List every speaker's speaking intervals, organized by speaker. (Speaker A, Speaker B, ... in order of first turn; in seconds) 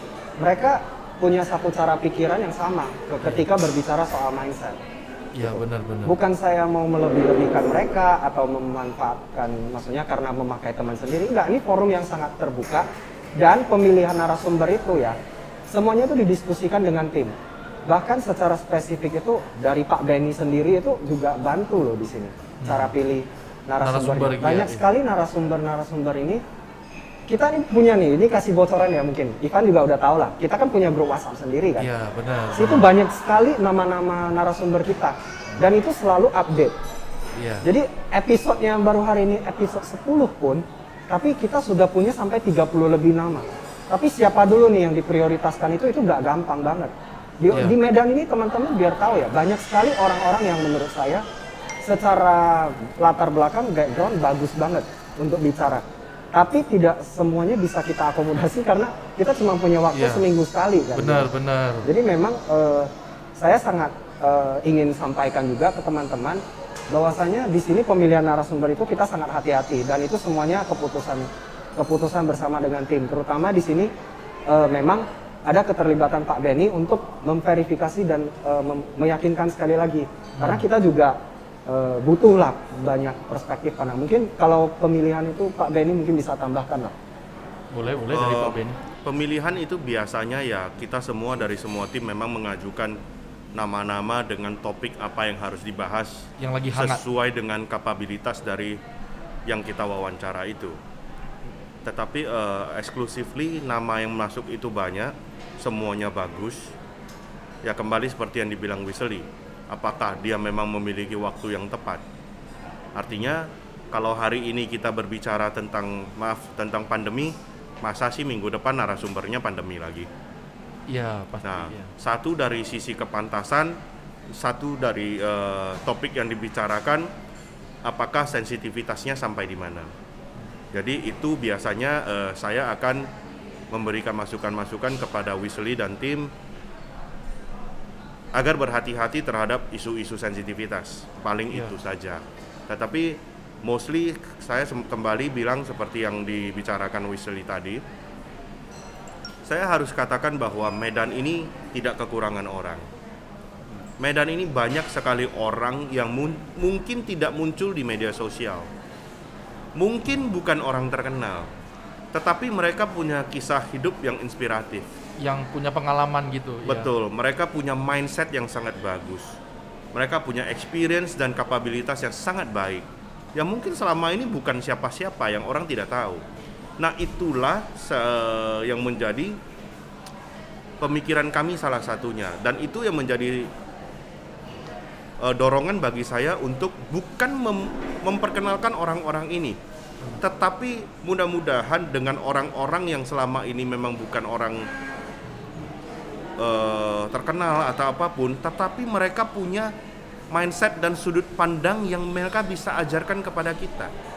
Speaker A: 0.4-4.8, 5.5-15.2, 15.7-17.4, 17.9-26.4, 27.3-31.9, 32.5-36.8, 37.6-51.2, 51.8-61.3, 61.8-73.9, 74.5-87.0
Speaker B: 5.3-6.2, 22.6-22.9, 23.8-24.9, 31.8-32.9, 37.4-37.7, 59.9-60.3, 60.9-61.9, 80.4-80.7, 87.7-88.8, 96.4-97.0, 120.9-121.9, 165.2-166.9
Speaker C: 88.1-93.0, 93.5-98.8, 99.5-100.8, 101.8-106.7, 107.6-112.0, 113.0-120.1, 121.4-123.8, 124.3-127.1, 127.8-129.9, 130.7-133.1, 133.7-136.3, 138.3-147.8, 149.5-152.9, 154.0-158.7, 159.8-161.5, 162.1-164.9, 166.7-169.4, 169.9-176.2, 176.8-179.4, 180.8-183.5, 185.2-189.6, 190.2-194.7, 196.4-199.7, 200.3-203.9